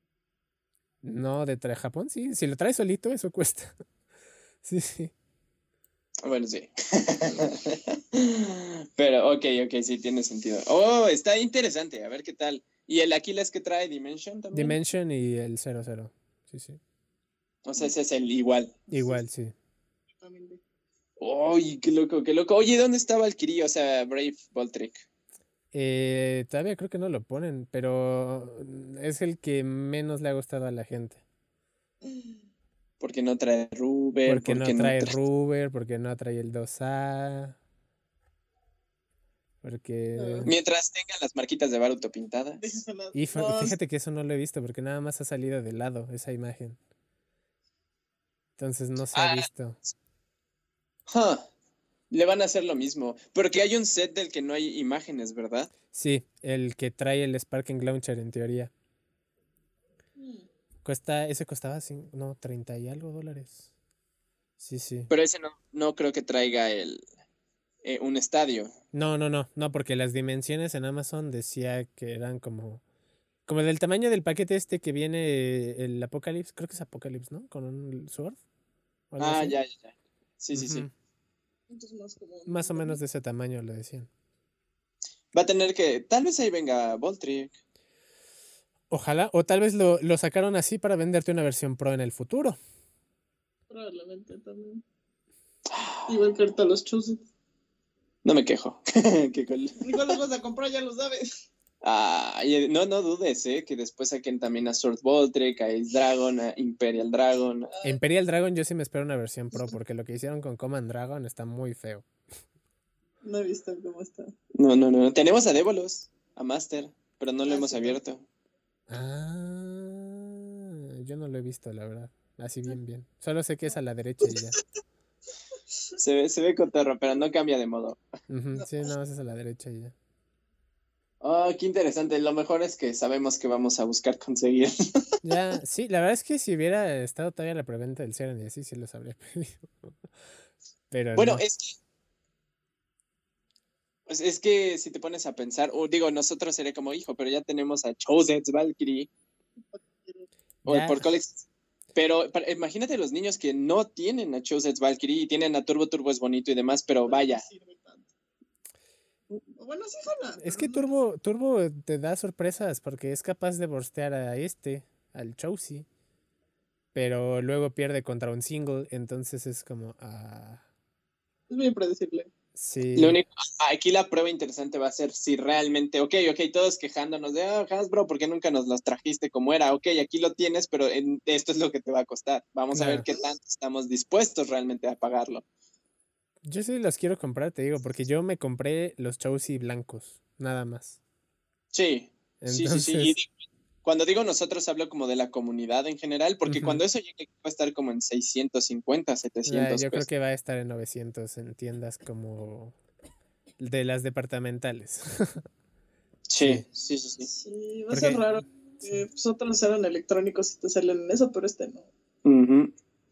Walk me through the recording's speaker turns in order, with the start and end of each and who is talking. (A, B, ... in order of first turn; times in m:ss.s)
0:01.0-0:03.7 A
0:04.6-0:05.1 A
0:06.2-0:14.8 B
0:14.5-0:16.8 A
0:17.6-0:18.7 B
0:18.9-0:19.5 A
0:20.2-0:20.6 C
0:21.2-0:25.0 B
0:25.7-0:31.2 A
0:33.0-0:35.1 B
0:34.3-0:37.6 A
0:39.6-0:40.5 A
0:40.2-0:40.5 C
0:40.5-0:42.8 B
0:42.6-0:43.8 C
0:43.1-0:46.8 A
0:48.6-0:49.8 A
0:49.1-0:49.5 B
0:51.1-0:51.5 B
0:52.1-0:55.7 B
0:55.9-0:58.7 A
1:00.2-1:00.5 C
1:00.8-1:03.6 A
1:04.6-1:05.1 A
1:05.1-1:07.0 B
1:07.8-1:08.7 B
1:08.9-1:12.8 A
1:13.5-1:18.4 A
1:19.1-1:19.6 A
1:19.2-1:20.9 B
1:20.5-1:20.9 A
1:21.7-1:23.0 C
1:22.5-1:24.1 A
1:25.3-1:27.6 B
1:28.9-1:32.6 A
1:33.7-1:34.8 C
1:35.7-1:36.2 B
1:36.1-1:37.2 C
1:38.2-1:40.0 B
1:39.8-1:41.3 C
1:41.8-1:47.7 B
1:47.8-1:52.1 A
1:53.2-1:54.3 C
1:54.6-1:58.2 B
1:57.4-1:58.0 C
1:58.9-2:04.6 A
2:06.0-2:08.0 B
2:08.3-2:09.9 A
2:11.2-2:15.1 B
2:15.2-2:19.9 A
2:20.9-2:21.4 A
2:21.2-2:21.8 B
2:24.1-2:29.1 B
2:29.6-2:30.3 C
2:30.6-2:31.1 A
2:30.6-2:37.4 B
2:37.1-2:38.1 C
2:39.3-2:40.9 C
2:40.4-2:45.9 A
2:46.9-2:50.6 A
2:51.5-2:52.3 C
2:52.6-2:53.2 A
2:53.0-3:05.4 B
3:02.7-3:03.0 A
3:06.4-3:11.0 A
3:11.7-3:20.0 B
3:12.4-3:13.2 A
3:16.5-3:16.8 A
3:19.5-3:22.8 A
3:23.6-3:25.4 A
3:26.3-3:27.3 B
3:26.4-3:26.6 A
3:27.3-3:31.9 C
3:27.9-3:28.9 A
3:32.2-3:32.8 B